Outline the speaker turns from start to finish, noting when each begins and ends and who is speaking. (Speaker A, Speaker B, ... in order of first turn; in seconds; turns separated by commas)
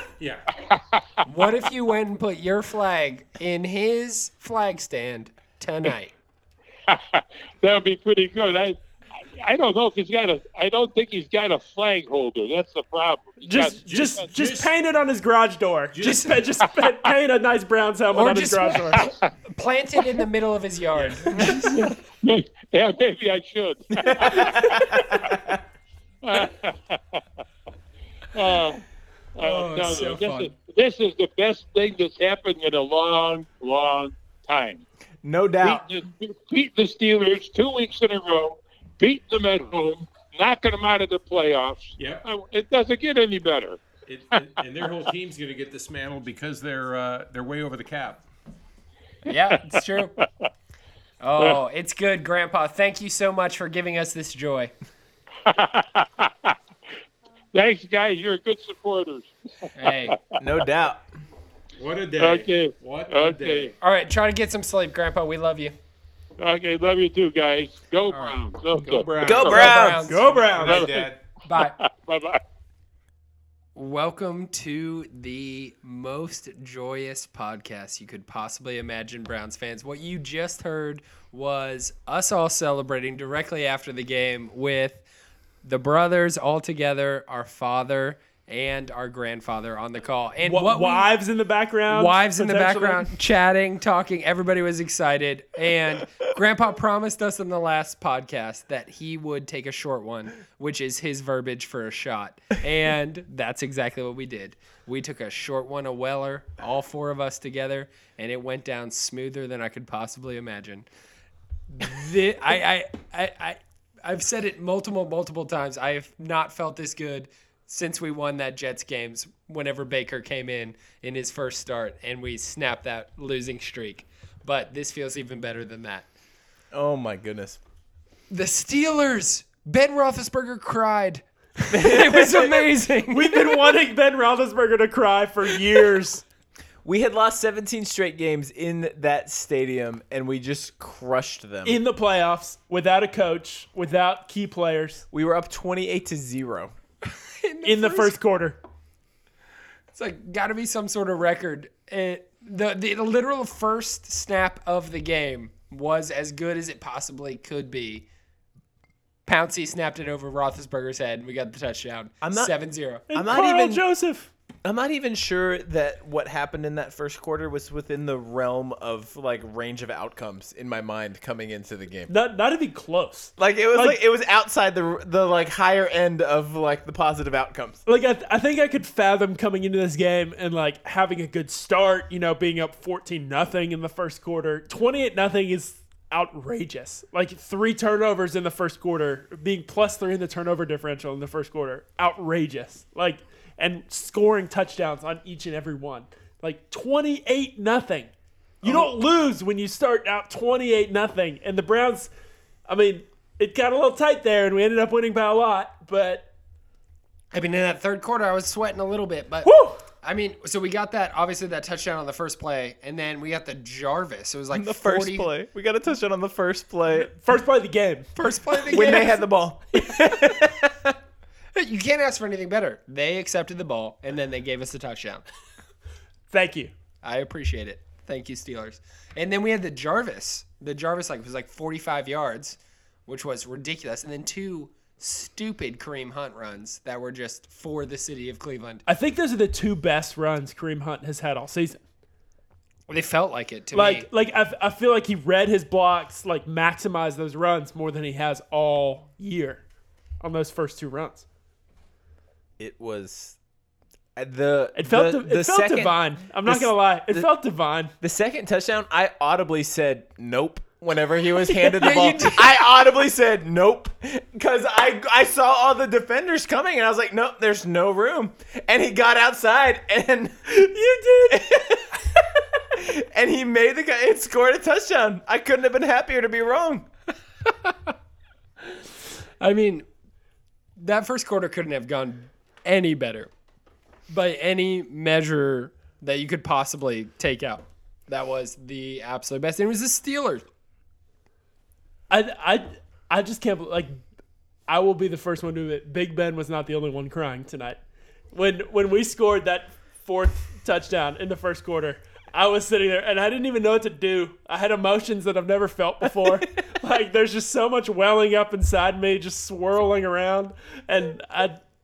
Speaker A: 0.2-0.4, Speaker B: 1.2-6.1, Speaker C: 6.9-8.8, Speaker C: 9.4-14.3, Speaker D: 13.4-19.1, Speaker A: 13.9-14.7, Speaker A: 15.9-16.4, Speaker B: 18.1-21.7, Speaker C: 21.7-25.3, Speaker E: 24.0-25.6, Speaker C: 26.2-27.2, Speaker C: 28.3-28.8, Speaker C: 29.4-34.8, Speaker B: 29.4-30.5, Speaker E: 35.2-35.8, Speaker C: 35.6-43.8, Speaker A: 42.0-42.2, Speaker A: 44.0-48.2, Speaker B: 49.2-50.1, Speaker B: 51.2-54.7, Speaker C: 55.5-56.5, Speaker C: 57.5-59.3, Speaker B: 59.7-60.1, Speaker E: 60.4-61.0, Speaker A: 61.8-63.7, Speaker C: 62.2-63.7, Speaker B: 63.8-65.7, Speaker C: 66.4-69.7, Speaker B: 68.1-68.4, Speaker A: 68.8-69.7, Speaker B: 69.2-70.7, Speaker E: 69.2-70.1, Speaker D: 70.0-70.8, Speaker A: 70.4-71.2, Speaker C: 70.6-72.4, Speaker B: 71.4-71.8, Speaker B: 73.8-85.0, Speaker B: 85.6-91.1, Speaker D: 90.4-93.1, Speaker B: 91.9-110.9, Speaker B: 111.7-126.1, Speaker E: 126.7-127.6, Speaker B: 128.3-133.7, Speaker E: 131.7-132.6, Speaker D: 133.1-136.2, Speaker E: 136.8-141.8, Speaker D: 141.6-145.0, Speaker E: 145.1-146.7, Speaker B: 147.1-148.2, Speaker D: 147.6-148.6, Speaker B: 149.9-158.1, Speaker B: 159.2-163.1, Speaker E: 162.2-162.5, Speaker D: 163.1-164.3, Speaker E: 163.1-163.8, Speaker E: 164.6-172.1, Speaker D: 172.1-174.0, Speaker E: 173.4-177.8, Speaker D: 177.8-198.1, Speaker D: 198.6-202.1, Speaker D: 202.7-206.3, Speaker B: 207.3-215.3, Speaker D: 209.4-209.8, Speaker E: 214.5-217.1, Speaker D: 216.9-218.1, Speaker B: 218.1-219.2, Speaker E: 218.7-220.9, Speaker B: 221.5-225.2, Speaker D: 226.3-226.7, Speaker B: 227.0-238.8, Speaker D: 238.8-241.8, Speaker B: 242.9-244.1, Speaker D: 243.7-249.6, Speaker D: 250.2-251.2, Speaker E: 252.6-253.4, Speaker E: 254.2-257.3, Speaker D: 254.7-257.9, Speaker E: 258.0-270.6, Speaker D: 261.5-262.3, Speaker B: 261.6-262.5, Speaker D: 270.5-271.4, Speaker E: 271.3-272.1, Speaker E: 272.7-276.9, Speaker B: 277.6-277.9, Speaker B: 279.4-279.9, Speaker B: 280.8-283.3, Speaker B: 284.1-290.4, Speaker D: 292.1-294.0, Speaker D: 294.7-297.8, Speaker D: 298.3-311.6